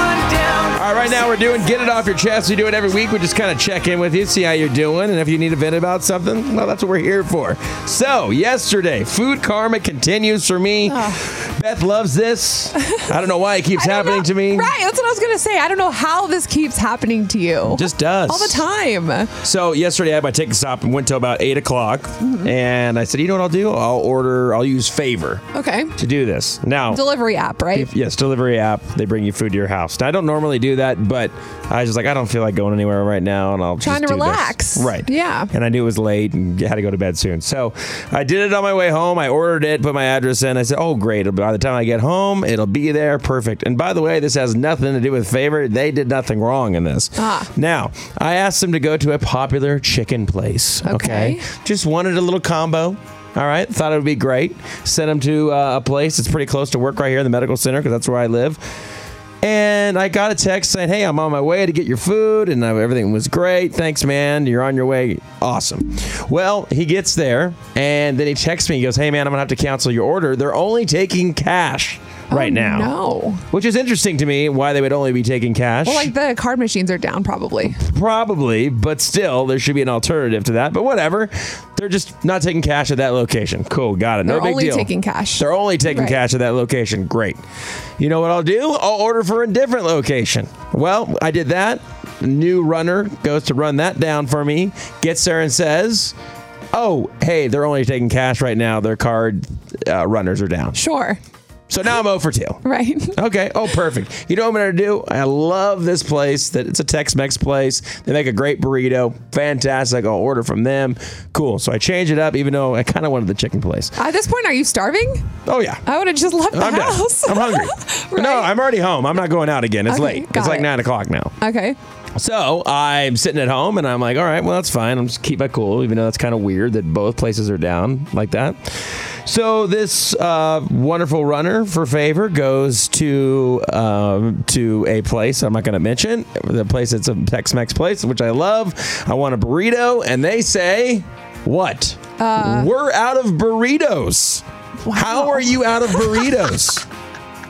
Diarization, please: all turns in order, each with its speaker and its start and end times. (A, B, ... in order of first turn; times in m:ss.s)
0:00.7-0:14.7 A
0:10.9-0:11.2 B
0:13.8-0:19.3 B
0:17.7-0:18.6 A
0:19.4-0:25.4 A
0:22.2-0:22.5 B
0:25.5-0:25.9 B
0:26.0-0:27.0 A
0:26.9-0:27.9 B
0:27.7-0:58.6 A
0:33.8-0:35.5 B
0:47.2-0:47.5 B
0:50.8-0:51.4 B
0:59.4-1:13.0 A
1:12.3-1:13.4 B
1:13.5-1:16.1 A
1:15.8-1:17.8 B
1:17.8-1:27.4 A
1:24.2-1:26.2 B
1:28.0-1:36.2 A
1:36.7-1:40.8 A
1:40.7-1:41.2 B
1:41.7-1:54.0 A
1:42.6-1:43.2 B
1:54.0-1:55.3 B
1:55.5-1:55.8 A
1:55.9-1:58.5 B
1:56.5-2:01.3 A
1:59.9-2:00.7 B
2:01.4-2:01.8 B
2:02.2-2:26.8 A
2:22.2-2:22.7 B
2:24.9-2:26.4 B